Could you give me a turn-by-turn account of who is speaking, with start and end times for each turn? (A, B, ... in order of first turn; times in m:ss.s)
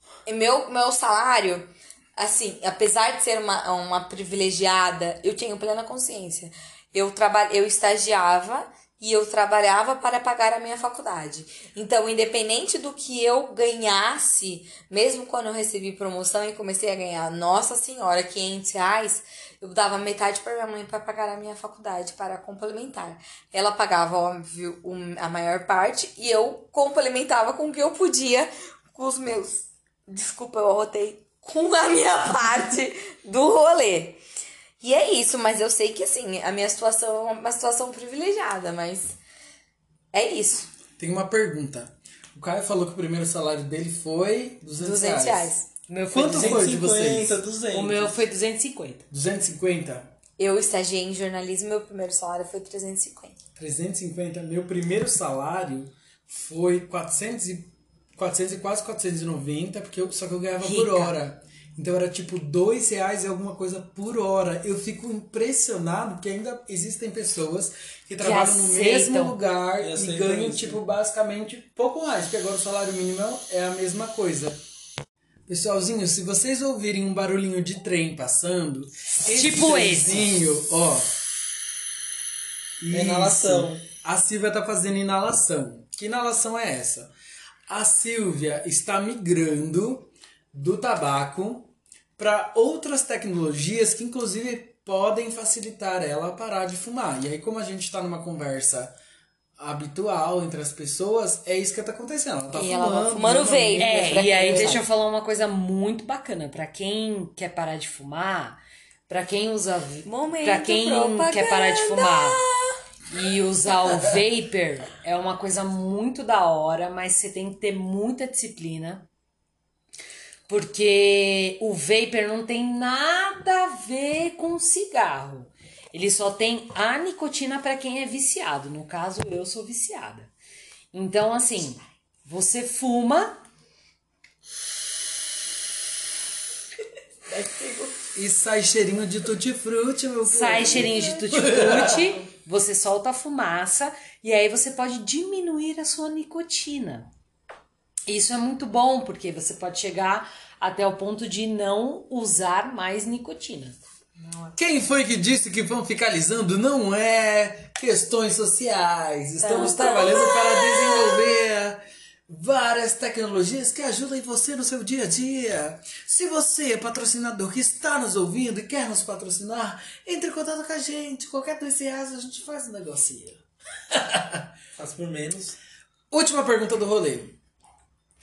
0:00.3-0:34.2 A
0:34.8-0:39.2 A
0:40.1-0:40.7 A
0:41.0-0:45.6 B
0:44.8-0:45.7 A
0:45.9-0:46.7 C
0:46.1-0:47.4 B
0:46.2-0:48.2 D
0:47.7-0:49.1 C
0:49.1-0:50.1 B
0:50.4-0:53.4 A
0:53.6-1:14.6 B
1:00.6-1:01.2 C
1:08.2-1:09.4 C
1:09.8-1:10.8 D
1:15.5-1:21.2 B
1:19.2-1:20.3 C
1:22.8-1:27.1 B
1:22.9-1:23.8 D
1:27.7-1:38.9 B
1:39.6-1:44.8 B
1:42.5-1:44.8 A
1:43.8-1:52.4 C
1:50.0-1:52.8 A
1:53.1-1:59.1 C
2:00.5-2:10.3 C
2:10.9-2:13.4 C
2:17.3-2:18.0 A
2:18.1-2:22.1 B
2:20.3-2:27.1 C
2:21.5-2:22.1 A
2:28.1-2:33.8 C
2:34.2-2:34.6 A
2:34.6-2:54.5 B
2:39.4-2:41.2 A
2:54.8-2:55.6 D
2:56.1-2:57.4 B